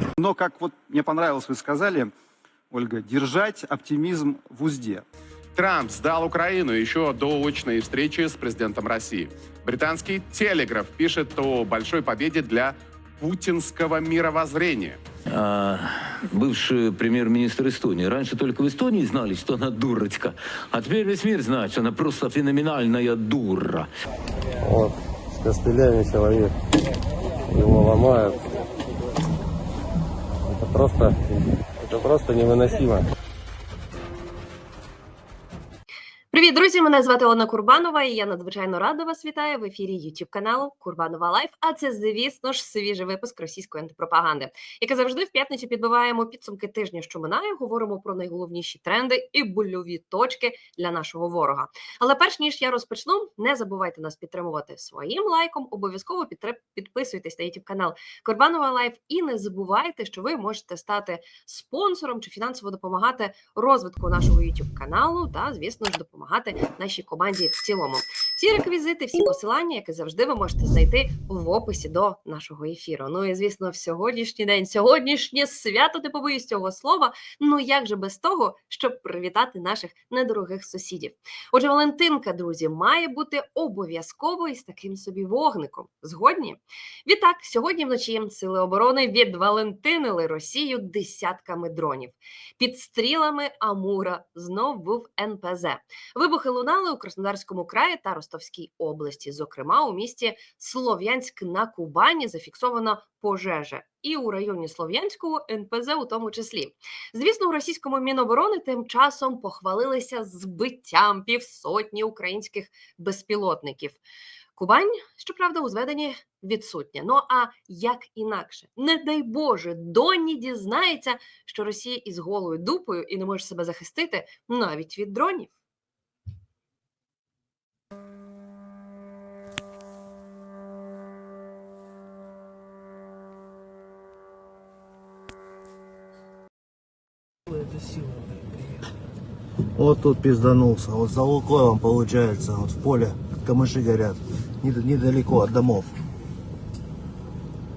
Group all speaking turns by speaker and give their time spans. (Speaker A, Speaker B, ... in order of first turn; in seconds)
Speaker A: 0.2-2.1, 2.7-5.0
Speaker B: 5.5-15.0
Speaker C: 15.3-23.9
Speaker D: 24.6-26.5, 27.5-28.5, 30.4-33.0
Speaker E: 36.3-114.0, 114.5-125.5
Speaker F: 139.8-145.9